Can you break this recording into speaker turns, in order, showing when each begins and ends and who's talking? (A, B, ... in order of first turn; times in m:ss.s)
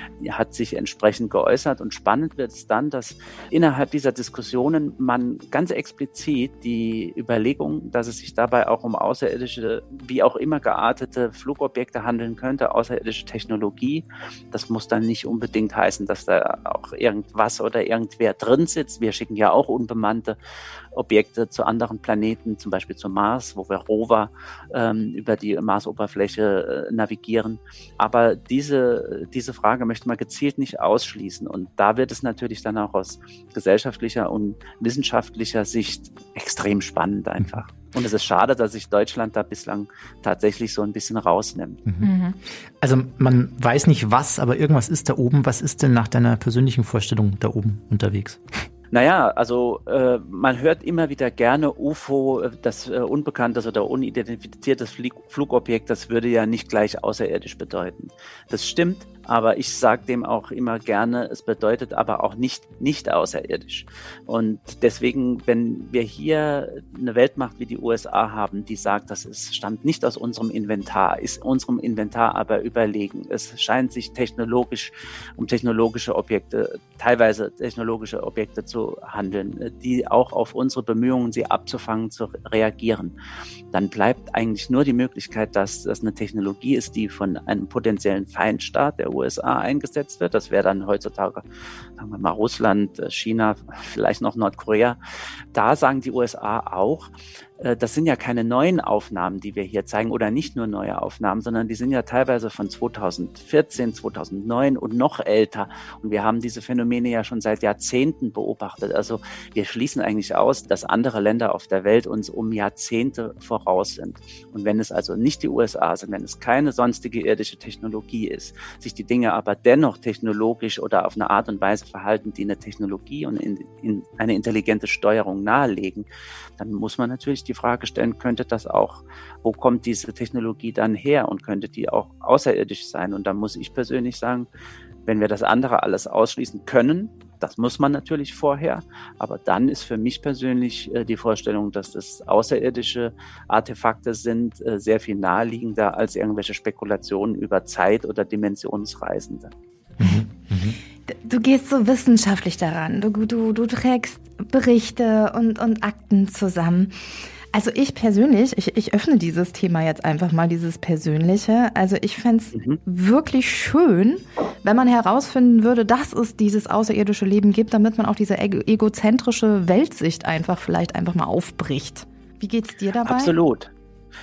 0:00.2-0:20.4 A
0:20.9-0:41.8 A
0:42.0-0:42.4 B
0:42.8-0:48.4 C
0:48.9-1:23.1 A
1:23.7-1:31.4 A
1:32.0-1:35.0 A
1:35.5-2:06.1 A
2:06.6-2:14.5 A
2:15.1-2:29.5 A
2:30.0-2:30.8 C
2:31.1-2:37.0 B
2:37.5-2:53.4 B
2:53.0-2:53.7 A